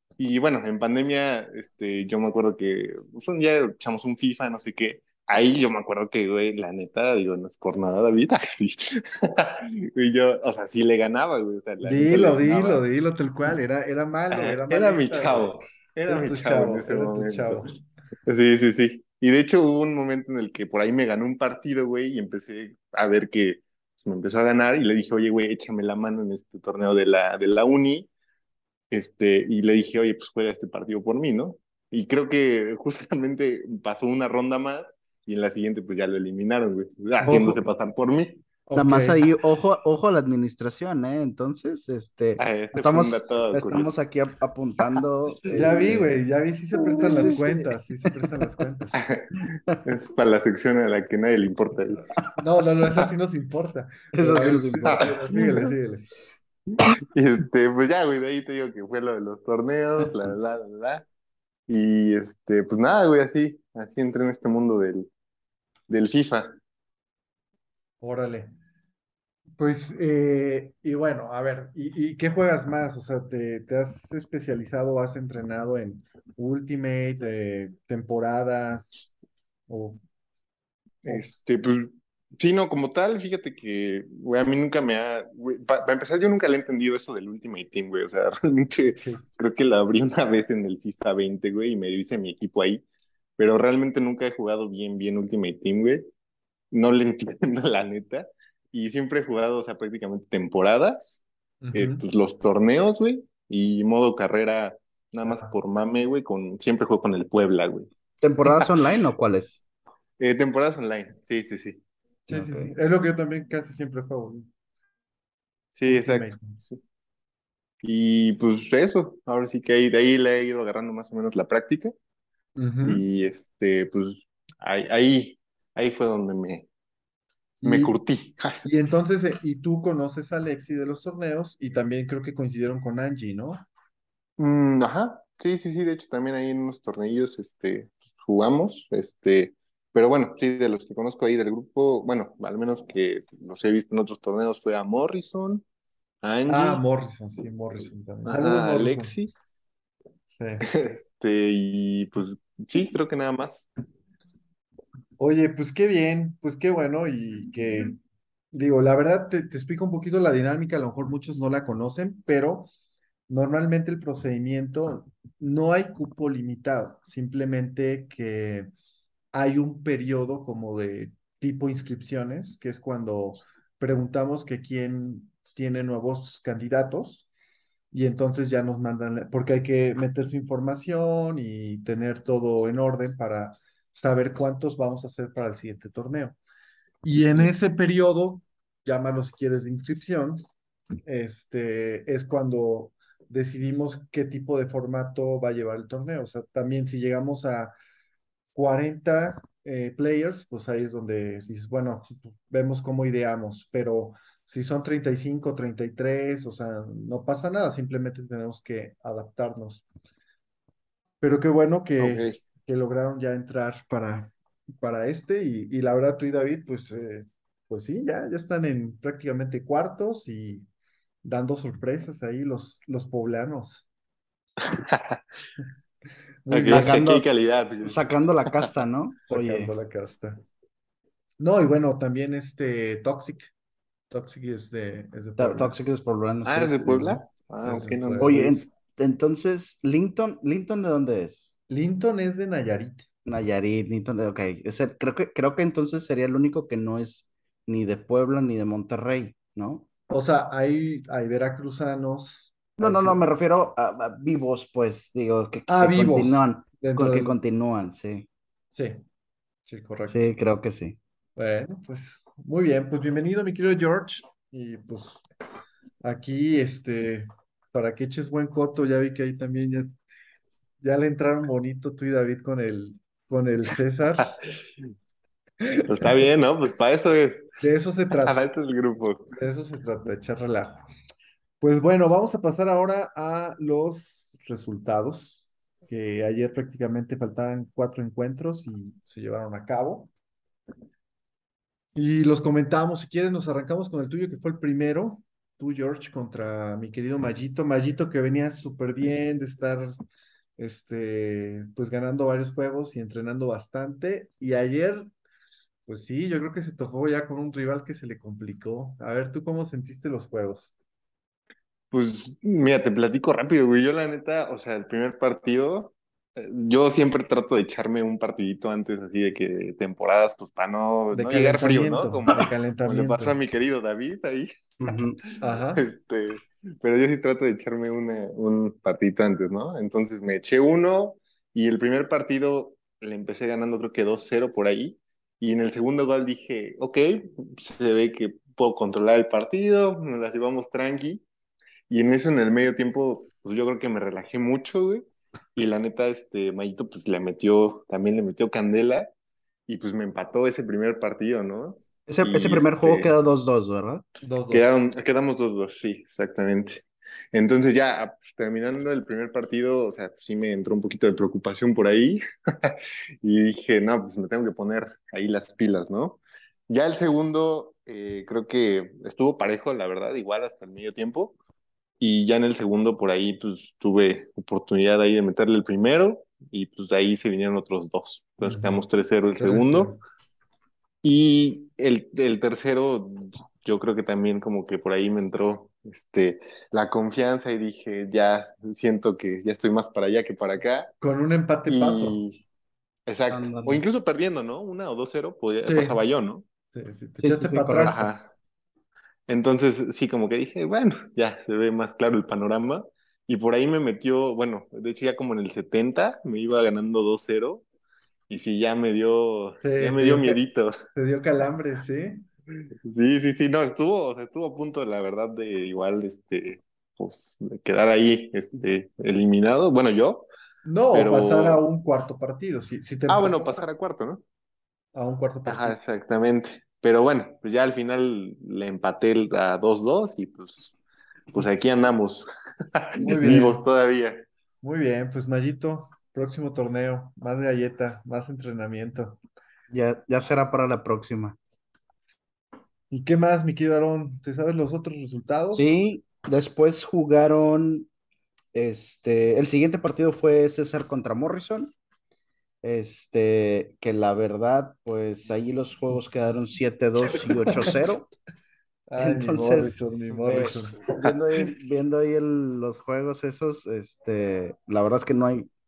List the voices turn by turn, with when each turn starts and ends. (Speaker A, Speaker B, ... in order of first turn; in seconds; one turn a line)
Speaker A: 0.2-12.8
Speaker B: 11.8-17.8
Speaker A: 14.3-17.7
Speaker A: 18.3-28.1
Speaker A: 28.9-38.4
Speaker C: 37.2-37.6
Speaker B: 37.2-37.6
Speaker B: 38.7-39.2
Speaker C: 38.8-46.2
Speaker A: 42.4-44.0
Speaker B: 45.5-49.0
Speaker A: 46.9-47.5
Speaker C: 47.0-47.6
Speaker A: 49.0-49.3
Speaker A: 49.8-52.1
Speaker B: 52.4-56.1
Speaker C: 54.1-55.1
Speaker A: 54.9-55.6
Speaker A: 56.8-61.0
Speaker A: 61.7-65.1
Speaker A: 65.9-66.5
Speaker B: 68.0-68.5
Speaker B: 69.6-79.1
Speaker B: 79.7-80.0
Speaker B: 81.0-81.3
Speaker A: 81.0-92.8
Speaker B: 89.0-89.2
Speaker A: 93.4-96.1
Speaker A: 96.7-107.9
Speaker B: 101.6-102.0
Speaker B: 105.2-105.5
Speaker C: 108.2-109.6
Speaker A: 110.2-111.8
Speaker B: 112.3-114.5
Speaker C: 112.3-112.7
Speaker A: 115.7-116.8
Speaker B: 115.9-116.6
Speaker A: 117.8-122.0
Speaker B: 122.6-123.0
Speaker A: 122.9-126.7
Speaker B: 127.6-128.0
Speaker A: 127.6-128.7
Speaker B: 128.6-133.7
Speaker A: 134.4-145.6
Speaker A: 146.2-146.8
Speaker B: 146.5-149.2
Speaker A: 148.3-149.3
Speaker B: 150.3-150.7
Speaker A: 150.7-153.7
Speaker B: 155.2-158.0
Speaker B: 158.5-162.7
Speaker B: 163.3-168.7
Speaker B: 169.3-177.3
Speaker B: 177.9-186.4
Speaker B: 187.0-190.4
Speaker B: 191.1-197.7
Speaker B: 198.5-209.8
Speaker B: 211.2-220.7
Speaker A: 212.0-212.4
Speaker B: 221.2-223.9
Speaker A: 224.6-225.2
Speaker B: 226.5-227.0
Speaker A: 226.5-228.0
Speaker C: 226.7-227.2
Speaker C: 227.8-229.7
Speaker B: 229.3-230.4
Speaker B: 231.4-233.5
Speaker B: 234.1-235.8
Speaker C: 235.4-237.2
Speaker A: 236.4-238.6
Speaker B: 237.6-238.5
Speaker C: 238.2-241.5
Speaker B: 241.7-243.1
Speaker C: 243.2-249.9
Speaker B: 250.1-253.2
Speaker C: 252.8-258.3
Speaker B: 255.7-257.4
Speaker B: 258.7-259.0
Speaker B: 259.7-260.3
Speaker C: 260.1-261.0
Speaker B: 261.4-265.2
Speaker B: 266.0-269.9
Speaker B: 270.8-274.4
Speaker B: 275.6-276.2
Speaker A: 275.9-277.6
Speaker B: 277.6-278.4
Speaker A: 278.2-279.4
Speaker B: 279.4-280.9
Speaker B: 281.6-290.1
Speaker B: 291.9-299.9
Speaker B: 300.6-305.1
Speaker B: 305.9-310.7
Speaker A: 311.9-325.0
Speaker B: 321.1-323.4
Speaker C: 324.8-325.2
Speaker B: 325.4-325.9
Speaker A: 325.8-341.2
Speaker A: 341.9-345.0
Speaker A: 345.6-349.1
Speaker A: 349.7-353.1
Speaker C: 352.1-354.0
Speaker B: 354.2-354.7
Speaker A: 354.5-371.4
Speaker A: 372.0-379.9
Speaker B: 378.4-378.8
Speaker B: 379.4-380.0
Speaker A: 381.0-390.9
Speaker B: 391.0-392.2
Speaker A: 391.7-392.4
Speaker A: 393.1-396.5
Speaker C: 393.3-393.8
Speaker B: 395.6-396.0
Speaker B: 396.7-398.1
Speaker C: 397.2-398.1
Speaker A: 397.8-398.3
Speaker A: 399.3-407.6
Speaker A: 408.3-410.7
Speaker B: 409.6-410.4
Speaker B: 410.9-412.2
Speaker A: 412.9-420.3
Speaker B: 420.6-423.6
Speaker A: 420.9-421.6
Speaker A: 423.1-424.2
Speaker B: 424.9-425.8
Speaker A: 425.5-430.8
Speaker A: 431.3-434.3
Speaker B: 433.0-433.6
Speaker B: 434.6-439.2
Speaker C: 439.7-441.4
Speaker B: 442.9-445.8
Speaker C: 445.5-447.9
Speaker C: 448.5-451.7
Speaker C: 452.6-458.1
Speaker B: 457.5-457.8
Speaker B: 458.9-460.9
Speaker C: 459.0-465.5